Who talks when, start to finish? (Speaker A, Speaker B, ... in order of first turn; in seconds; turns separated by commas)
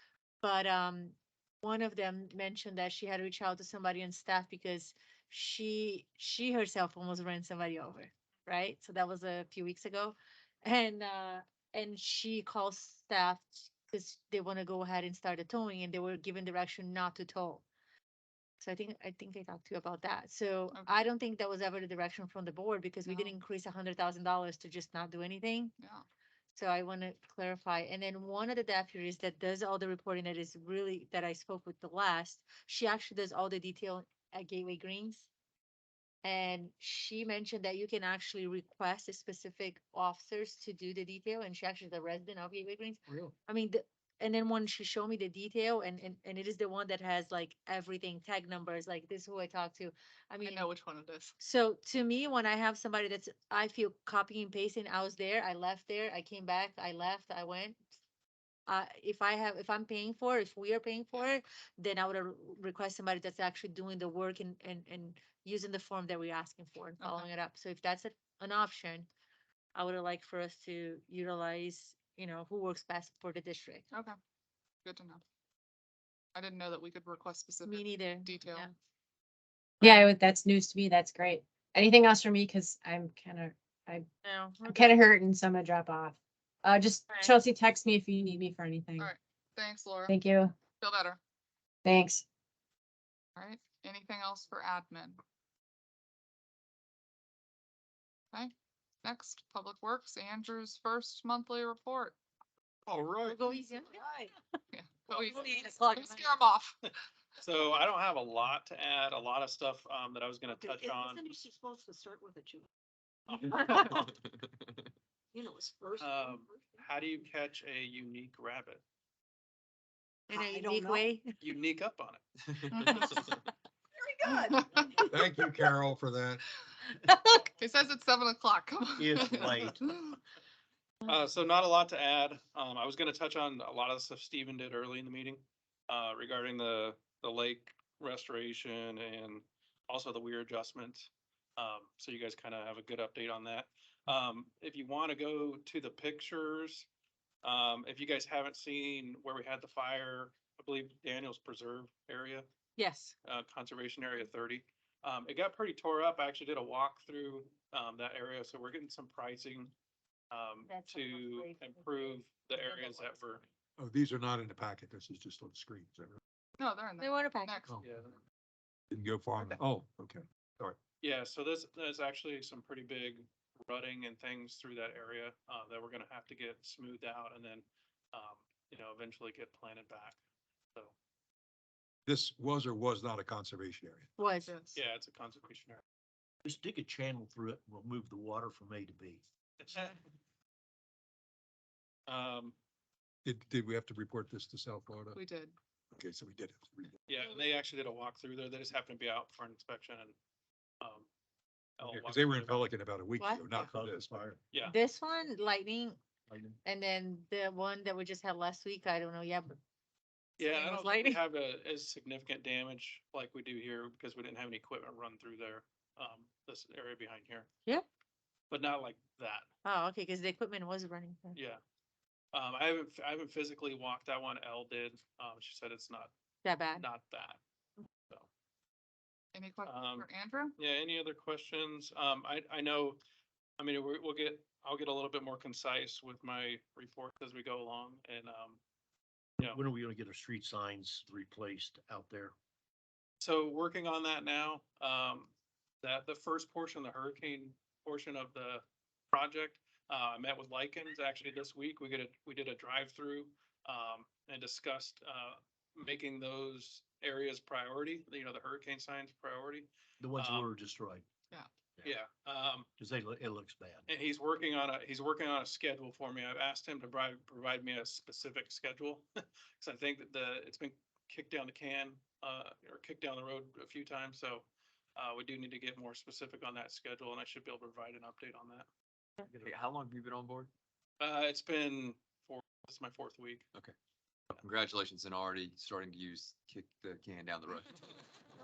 Speaker A: 0.4-17.6, Speaker A: 18.6-25.7, Speaker B: 20.7-21.0, Speaker B: 23.1-23.4, Speaker B: 25.8-26.1, Speaker A: 26.5-35.3, Speaker A: 36.2-50.7, Speaker B: 50.5-51.4, Speaker A: 51.4-57.8, Speaker A: 58.7-69.1, Speaker B: 67.0-67.3, Speaker A: 69.8-73.8, Speaker B: 74.8-75.2, Speaker B: 76.3-78.7, Speaker A: 77.7-78.7, Speaker C: 79.8-84.1, Speaker A: 84.2-85.0, Speaker C: 84.7-89.1, Speaker B: 89.0-90.2, Speaker C: 90.1-90.6, Speaker B: 90.7-91.2, Speaker C: 91.8-92.2, Speaker B: 93.4-95.2, Speaker B: 99.0-102.2, Speaker D: 102.9-103.4, Speaker A: 103.3-104.1, Speaker E: 103.5-104.3, Speaker B: 104.7-106.8, Speaker E: 105.2-106.3, Speaker F: 107.4-111.4, Speaker E: 110.5-112.7, Speaker E: 113.3-113.9, Speaker E: 115.3-116.5, Speaker F: 116.0-118.8, Speaker A: 120.3-121.4, Speaker C: 120.5-120.8, Speaker F: 121.4-123.0, Speaker B: 122.8-123.3, Speaker E: 124.2-125.5, Speaker B: 124.3-124.9, Speaker D: 125.1-126.4, Speaker B: 127.5-130.2, Speaker G: 129.0-129.8, Speaker F: 131.1-146.9, Speaker F: 147.4-152.4, Speaker A: 152.8-153.2, Speaker F: 153.2-159.7, Speaker F: 160.3-163.4, Speaker A: 160.7-163.2, Speaker D: 163.8-166.2, Speaker B: 166.6-167.8, Speaker A: 167.0-167.5, Speaker F: 167.8-168.2, Speaker D: 168.9-170.8, Speaker F: 171.0-180.2, Speaker D: 182.1-184.1, Speaker A: 184.2-184.5, Speaker B: 184.4-184.8, Speaker F: 184.7-185.8, Speaker G: 186.4-189.2, Speaker F: 189.6-190.0, Speaker F: 192.1-192.6, Speaker D: 193.2-195.2, Speaker B: 195.1-195.6, Speaker D: 195.9-196.9, Speaker F: 197.1-200.2, Speaker F: 200.8-201.1, Speaker F: 201.8-202.7, Speaker D: 201.8-204.2, Speaker A: 203.2-203.5, Speaker G: 203.6-204.4, Speaker A: 204.6-206.0, Speaker G: 206.3-206.6, Speaker A: 206.7-209.6, Speaker F: 210.4-217.5, Speaker A: 210.4-211.2, Speaker F: 218.5-219.5, Speaker A: 219.7-221.4, Speaker F: 221.3-221.6, Speaker F: 222.3-226.1, Speaker A: 226.4-226.8, Speaker F: 226.7-227.4, Speaker B: 229.3-230.5, Speaker F: 229.6-233.0, Speaker F: 233.6-238.6, Speaker G: 239.5-242.3, Speaker F: 243.2-245.3, Speaker F: 245.8-260.5, Speaker G: 260.0-261.1, Speaker F: 261.8-262.7, Speaker G: 262.8-263.9, Speaker F: 263.9-278.7, Speaker H: 279.3-280.5, Speaker F: 281.0-283.5, Speaker H: 284.4-287.8